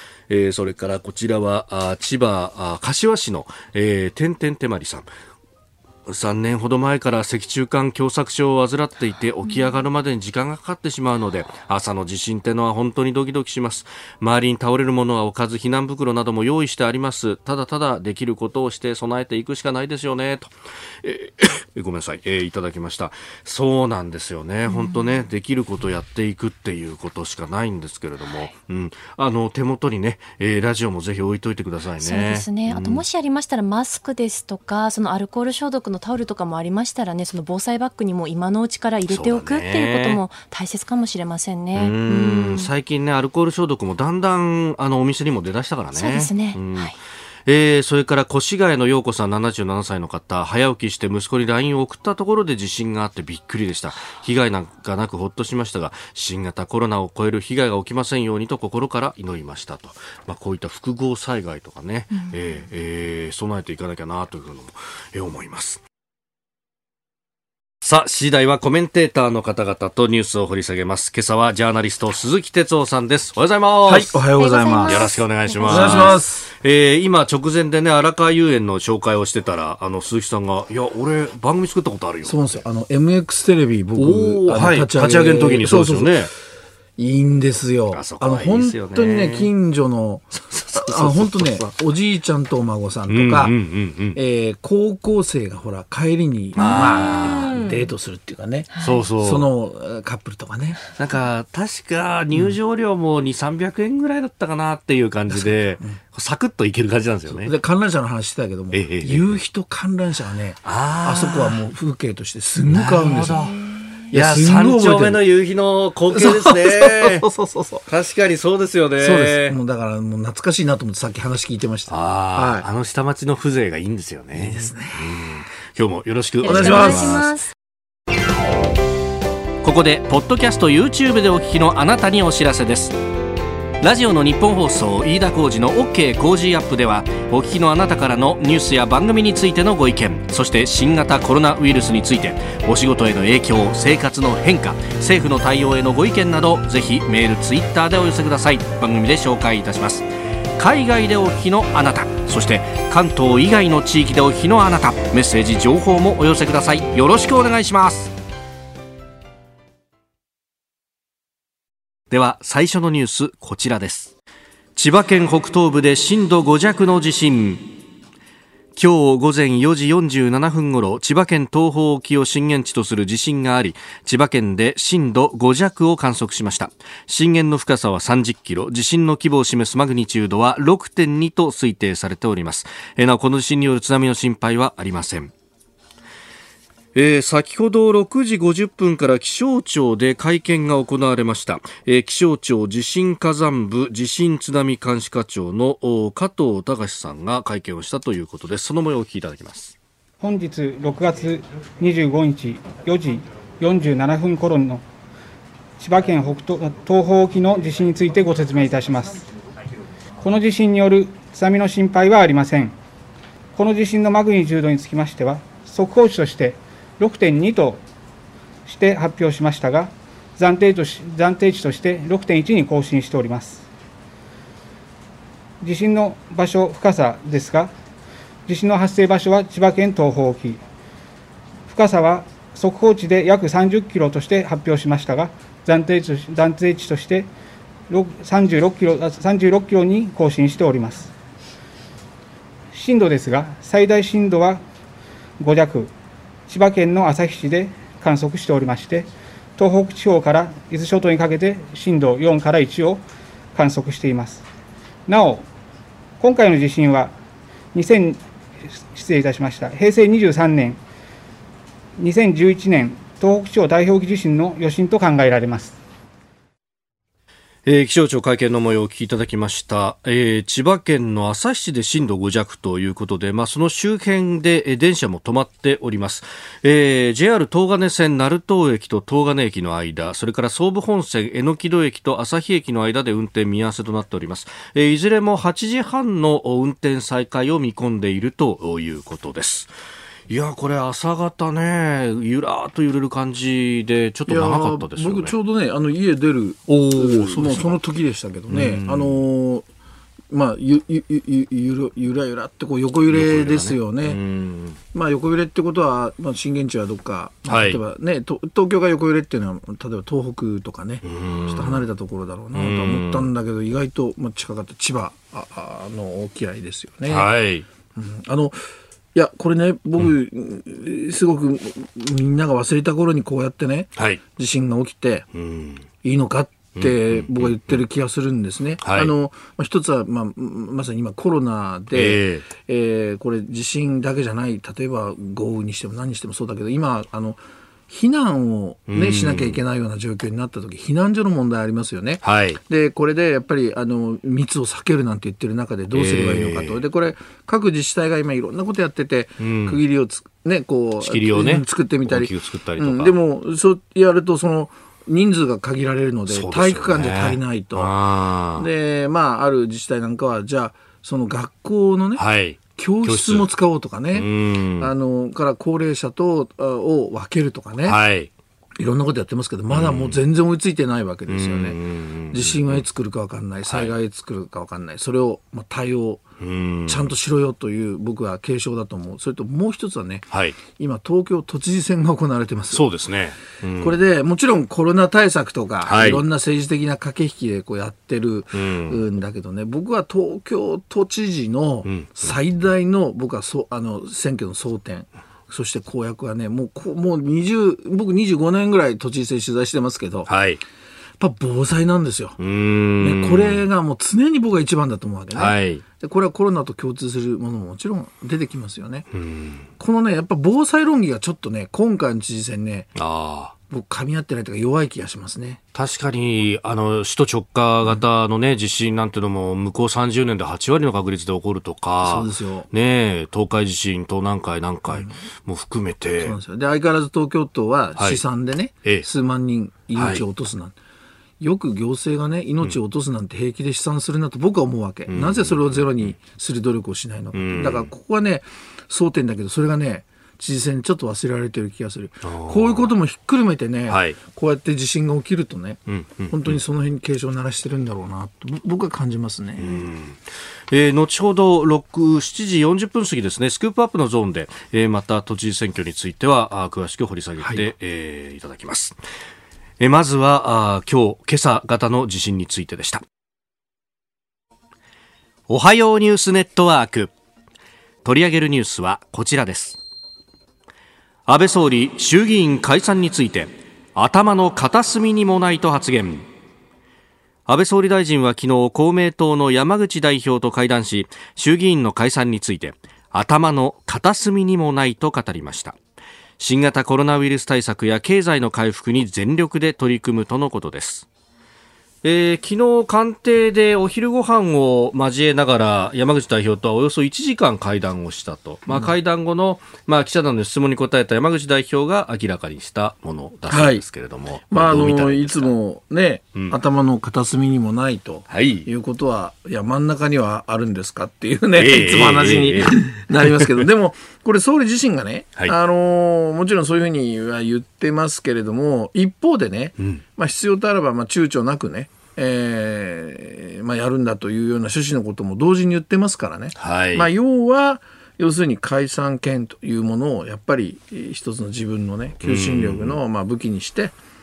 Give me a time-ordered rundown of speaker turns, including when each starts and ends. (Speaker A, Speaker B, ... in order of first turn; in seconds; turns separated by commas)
Speaker A: 0.3-5.1, Speaker A: 6.1-33.0, Speaker B: 32.0-42.7, Speaker A: 39.1-40.2, Speaker A: 41.7-46.9, Speaker B: 45.9-46.9, Speaker A: 47.5-65.8, Speaker A: 67.8-74.2, Speaker C: 73.8-76.5, Speaker B: 74.4-76.2, Speaker A: 74.8-82.5, Speaker C: 82.2-86.2, Speaker A: 84.0-86.3, Speaker C: 87.0-93.5, Speaker A: 87.9-89.5, Speaker A: 90.3-91.7, Speaker A: 93.1-94.2, Speaker C: 94.1-100.8, Speaker A: 96.5-97.6, Speaker B: 96.6-97.7, Speaker A: 98.8-99.5, Speaker A: 101.0-107.5, Speaker C: 105.3-106.0, Speaker C: 107.3-113.5, Speaker A: 108.7-109.4, Speaker A: 110.6-111.6, Speaker A: 112.7-117.3, Speaker C: 114.1-115.2, Speaker C: 116.1-117.8, Speaker A: 117.9-119.6, Speaker C: 119.0-122.7, Speaker A: 121.9-127.2, Speaker C: 124.3-125.1, Speaker B: 126.4-127.5, Speaker C: 126.4-127.3, Speaker A: 129.6-133.0, Speaker A: 133.8-158.1, Speaker A: 162.1-164.1, Speaker A: 164.8-167.7, Speaker A: 168.7-185.3, Speaker A: 186.9-199.8, Speaker D: 200.2-204.8, Speaker D: 205.8-209.2, Speaker D: 210.2-212.7, Speaker D: 213.5-217.8, Speaker D: 218.7-223.7, Speaker D: 225.6-227.7, Speaker D: 228.5-230.6, Speaker D: 231.7-237.3, Speaker D: 237.9-241.1, Speaker D: 242.7-244.6, Speaker D: 245.4-245.9, Speaker D: 246.5-253.0, Speaker D: 253.5-254.4, Speaker D: 255.1-255.5, Speaker D: 256.2-257.1, Speaker D: 257.7-258.2, Speaker D: 258.8-260.8, Speaker D: 262.0-265.8, Speaker A: 267.6-289.7, Speaker A: 290.3-295.3, Speaker C: 294.3-299.6, Speaker A: 296.7-297.8, Speaker A: 298.5-299.2, Speaker C: 300.3-304.2, Speaker A: 303.1-304.8, Speaker C: 304.9-317.3, Speaker A: 307.4-307.8, Speaker A: 311.0-311.8, Speaker A: 312.5-313.3, Speaker A: 317.1-317.6, Speaker C: 317.9-318.6, Speaker C: 319.1-325.3, Speaker A: 325.3-325.9, Speaker C: 326.0-357.9, Speaker A: 326.8-327.8, Speaker A: 328.8-329.1, Speaker A: 331.9-332.4, Speaker A: 338.9-339.6, Speaker A: 342.2-342.6, Speaker A: 345.9-346.8, Speaker A: 349.4-349.8, Speaker A: 351.0-353.1, Speaker A: 356.3-358.7, Speaker C: 358.5-362.2, Speaker A: 362.1-363.5, Speaker C: 362.8-368.0, Speaker A: 364.1-364.9, Speaker A: 367.8-368.3, Speaker C: 368.8-371.8, Speaker A: 369.7-370.2, Speaker A: 371.3-372.8, Speaker C: 372.3-376.2, Speaker A: 373.6-373.9, Speaker A: 376.4-377.1, Speaker C: 376.9-382.8, Speaker A: 380.3-380.6, Speaker A: 382.7-384.0, Speaker C: 383.8-400.3, Speaker A: 385.8-386.2, Speaker A: 388.5-389.0, Speaker A: 391.8-392.3, Speaker A: 400.3-400.6, Speaker C: 401.2-402.4, Speaker A: 402.4-403.6, Speaker C: 403.0-409.1, Speaker A: 405.3-405.8, Speaker A: 409.1-409.7, Speaker C: 409.8-412.9, Speaker A: 412.9-413.5, Speaker C: 413.7-415.6, Speaker A: 415.7-426.3, Speaker C: 422.0-422.7, Speaker C: 426.2-430.7, Speaker A: 427.9-428.2, Speaker A: 429.9-430.2, Speaker C: 431.4-449.9, Speaker A: 435.1-436.1, Speaker A: 437.3-437.9, Speaker A: 442.2-442.9, Speaker A: 443.9-444.2, Speaker A: 445.9-446.6, Speaker A: 449.6-459.0, Speaker A: 459.8-463.0, Speaker A: 465.5-467.1, Speaker A: 468.0-469.8, Speaker A: 471.3-476.2, Speaker A: 477.4-485.8, Speaker A: 486.4-491.1, Speaker A: 492.0-505.5, Speaker C: 503.5-503.8, Speaker C: 504.5-534.0, Speaker A: 508.3-508.7, Speaker A: 511.5-513.6, Speaker A: 526.5-527.1, Speaker A: 532.2-533.0